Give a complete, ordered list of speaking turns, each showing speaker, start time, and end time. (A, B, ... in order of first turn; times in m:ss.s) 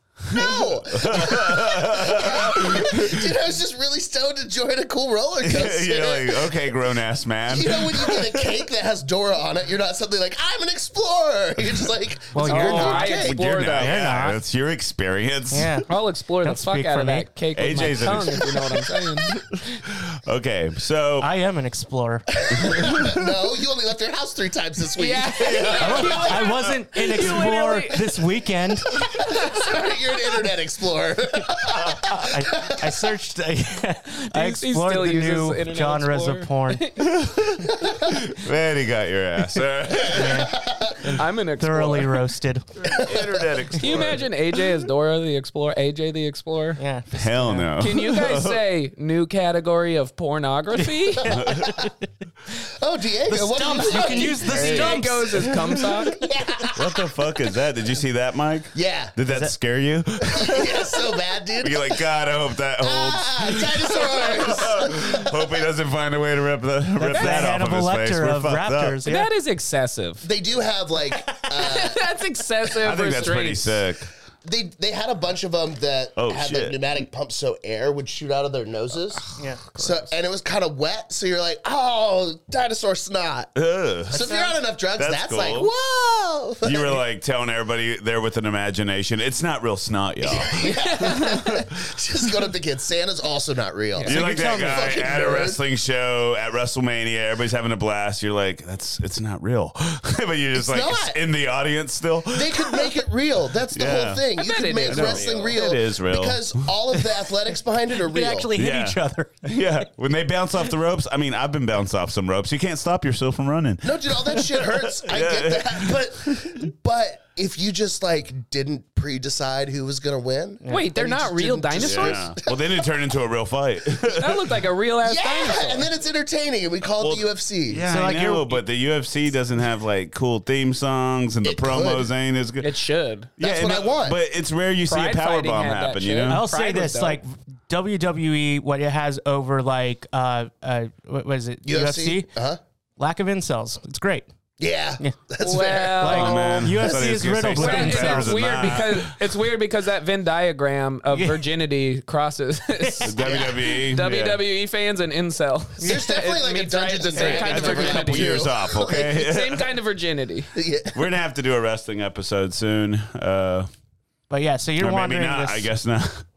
0:00.3-0:03.3 A
0:00.3-0:06.7 B
0:05.4-0:08.5 A
0:07.5-0:13.4 B
0:12.3-0:13.2 C
0:12.4-0:14.0 D
0:13.0-0:15.8 A
0:13.7-0:14.4 C
0:15.5-0:15.9 C
0:15.9-0:19.4 D
0:16.4-0:18.3 C
0:17.5-0:18.8 A
0:19.5-0:21.3 A
0:21.2-0:22.2 C
0:22.4-0:26.3 B
0:22.5-0:23.2 A
0:25.0-0:28.2 D
0:25.4-0:26.7 A
0:25.8-0:28.9 C
0:28.9-0:32.9 B
0:29.0-0:29.8 D
0:32.1-0:36.8 C
0:34.3-0:37.1 D
0:37.0-0:40.5 A
0:37.8-0:38.2 B
0:40.1-0:43.0 C
0:40.2-0:41.2 B
0:41.2-0:42.2 D
0:42.8-0:44.3 A
0:42.9-0:43.4 B
0:43.8-0:46.8 D
0:46.8-0:47.7 C
0:47.1-0:48.6 A
0:47.8-0:51.4 D
0:50.8-0:52.1 C
0:51.2-0:51.8 A
0:52.8-0:55.0 B
0:53.3-0:55.8 C
0:53.9-0:56.2 D
0:56.1-0:57.0 B
0:56.7-1:01.0 A
0:58.7-0:59.1 B
0:59.3-0:59.5 C
1:00.3-1:02.0 B
1:01.6-1:09.0 A
1:02.8-1:05.5 B
1:07.0-1:09.3 C
1:09.0-1:10.3 D
1:10.2-1:12.1 B
1:11.5-1:13.8 D
1:12.7-1:14.1 A
1:14.4-1:19.2 B
1:16.2-1:16.8 A
1:19.4-1:20.1 C
1:19.8-1:23.5 B
1:23.6-1:24.3 A
1:24.1-1:27.0 B
1:25.0-1:25.7 A
1:26.6-1:30.7 A
1:30.2-1:35.6 B
1:30.6-1:31.6 D
1:34.0-1:35.1 C
1:34.1-1:42.9 A
1:40.5-1:41.2 B
1:42.3-1:48.5 B
1:43.7-1:44.2 A
1:44.4-1:45.6 D
1:44.9-1:46.5 A
1:48.0-1:49.9 C
1:48.6-1:56.6 A
1:53.8-2:02.7 B
2:00.6-2:00.9 C
2:00.7-2:02.3 D
2:01.8-2:04.6 A
2:04.1-2:05.9 D
2:05.0-2:07.8 B
2:07.0-2:12.8 A
2:07.8-2:08.6 C
2:11.4-2:12.1 B
2:12.6-2:13.3 D
2:13.4-2:16.4 A
2:13.4-2:14.2 B
2:14.9-2:17.2 D
2:16.3-2:22.3 C
2:21.6-2:22.6 B
2:23.0-2:24.3 C
2:24.6-2:26.3 B
2:25.4-2:26.9 D
2:26.0-2:28.8 C
2:26.0-2:29.1 A
2:27.5-2:40.5 D
2:31.1-2:31.4 C
2:32.8-2:33.1 C
2:33.0-2:34.4 A
2:33.2-2:33.6 B
2:35.8-2:36.1 C
2:35.8-2:39.1 B
2:37.2-2:39.8 A
2:40.5-2:41.0 B
2:40.9-2:43.7 A
2:44.3-2:45.7 C
2:44.8-2:46.2 A